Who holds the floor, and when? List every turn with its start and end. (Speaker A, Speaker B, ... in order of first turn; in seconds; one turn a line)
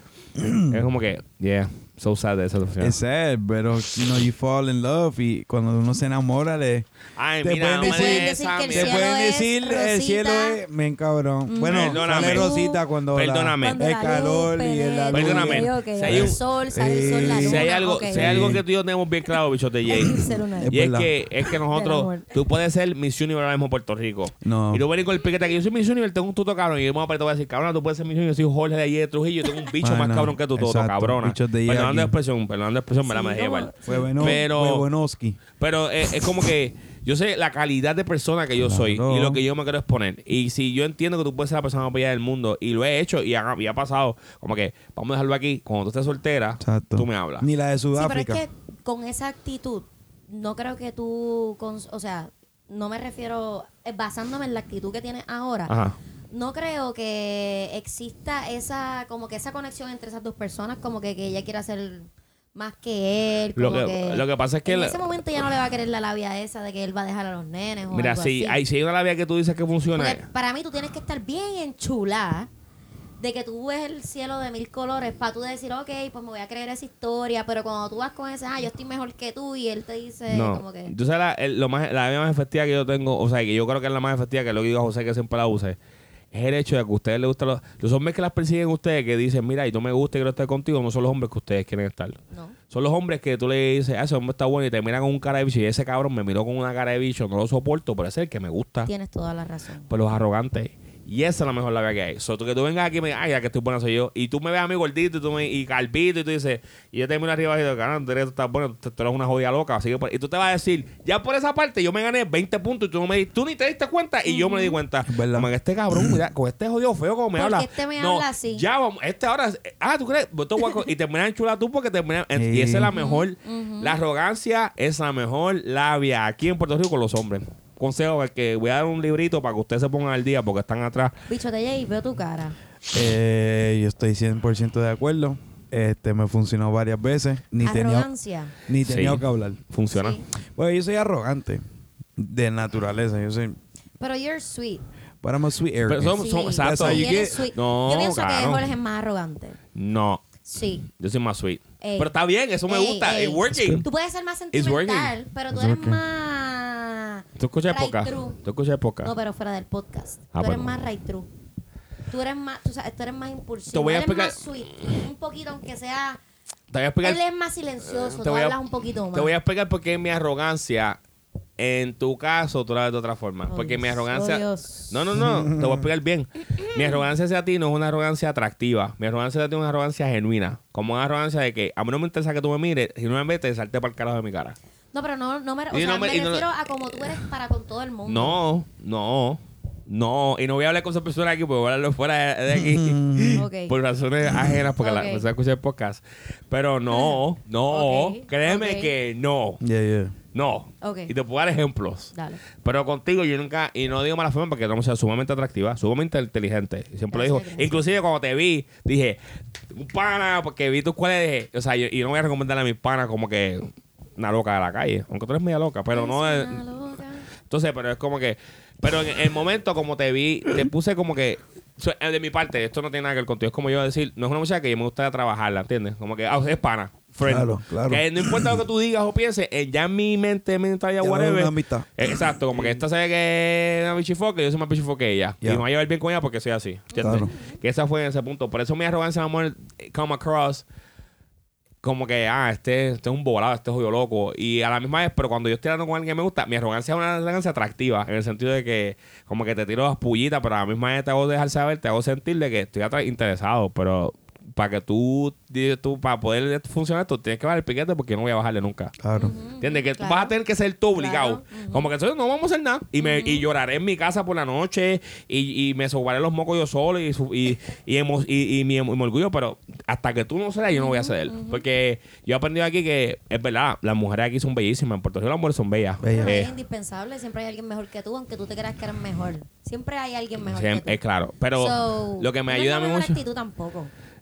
Speaker A: 0.3-0.8
Speaker B: 0.7-3.0
Speaker A: 2.8-6.9
Speaker B: 7.2-9.1
Speaker A: 7.4-18.6
Speaker C: 7.8-10.6
Speaker C: 11.5-12.8
Speaker B: 11.7-12.5
Speaker B: 13.1-13.8
Speaker C: 13.6-18.6
Speaker B: 15.1-16.4
Speaker B: 17.1-34.9
Speaker C: 19.9-20.8
Speaker A: 20.6-21.1
Speaker C: 21.4-22.3
Speaker A: 24.4-24.8
Speaker A: 29.8-32.1
Speaker C: 33.0-34.4
Speaker A: 33.8-35.4
Speaker B: 35.6-47.5
Speaker A: 38.6-39.4
Speaker A: 46.6-48.4
Speaker C: 47.9-55.7
Speaker B: 55.7-56.0
Speaker C: 56.3-68.6
Speaker B: 63.5-65.0
Speaker B: 67.9-70.2
Speaker C: 70.0-72.5
Speaker C: 73.2-80.9
Speaker B: 80.3-85.8
Speaker B: 86.3-92.2
Speaker C: 92.3-92.6
Speaker B: 92.7-98.9
Speaker C: 98.9-99.9
Speaker B: 99.9-131.2
Speaker C: 114.3-114.8
Speaker A: 115.1-116.2
Speaker C: 117.3-118.6
Speaker A: 122.3-122.9
Speaker C: 122.9-124.0
Speaker C: 131.3-132.6
Speaker A: 132.9-138.1
Speaker C: 137.6-138.5
Speaker A: 138.7-139.6
Speaker B: 138.8-140.2
Speaker C: 139.9-140.2
Speaker A: 140.5-141.6
Speaker A: 142.2-143.6
Speaker C: 144.0-144.8
Speaker A: 145.2-147.5
Speaker B: 145.9-148.7
Speaker C: 146.2-149.6
Speaker B: 149.7-150.2
Speaker C: 150.4-150.8
Speaker B: 150.9-153.8
Speaker C: 151.8-152.1
Speaker C: 152.7-158.4
Speaker A: 153.6-153.8
Speaker B: 154.5-155.1
Speaker A: 155.5-156.0
Speaker B: 157.4-159.1
Speaker C: 159.0-161.3
Speaker B: 160.3-160.8
Speaker C: 162.1-166.2
Speaker B: 163.7-165.0
Speaker B: 166.7-167.2
Speaker C: 167.0-169.3
Speaker B: 167.8-168.6
Speaker B: 169.1-171.0
Speaker B: 171.6-184.6
Speaker C: 173.5-175.2
Speaker A: 175.1-175.9
Speaker C: 184.9-188.4
Speaker B: 185.7-187.2
Speaker B: 188.0-199.6
Speaker A: 192.5-193.4
Speaker C: 193.3-193.7
Speaker C: 194.8-195.2
Speaker C: 196.9-197.2
Speaker C: 197.7-198.9
Speaker A: 199.6-200.2
Speaker B: 200.3-209.2
Speaker C: 200.8-201.1
Speaker C: 202.1-202.4
Speaker C: 207.1-207.7
Speaker B: 209.7-216.6
Speaker C: 215.9-217.3
Speaker B: 217.5-240.6
Speaker A: 227.2-228.6
Speaker A: 231.0-232.8
Speaker C: 236.9-237.5
Speaker A: 237.0-237.3
Speaker B: 241.8-258.9
Speaker A: 259.0-259.3
Speaker C: 259.1-260.3
Speaker B: 259.6-276.5
Speaker C: 260.9-261.9
Speaker C: 263.0-263.5
Speaker C: 270.7-271.6
Speaker A: 276.0-276.4
Speaker C: 276.1-281.0
Speaker B: 280.4-283.2
Speaker C: 281.6-283.9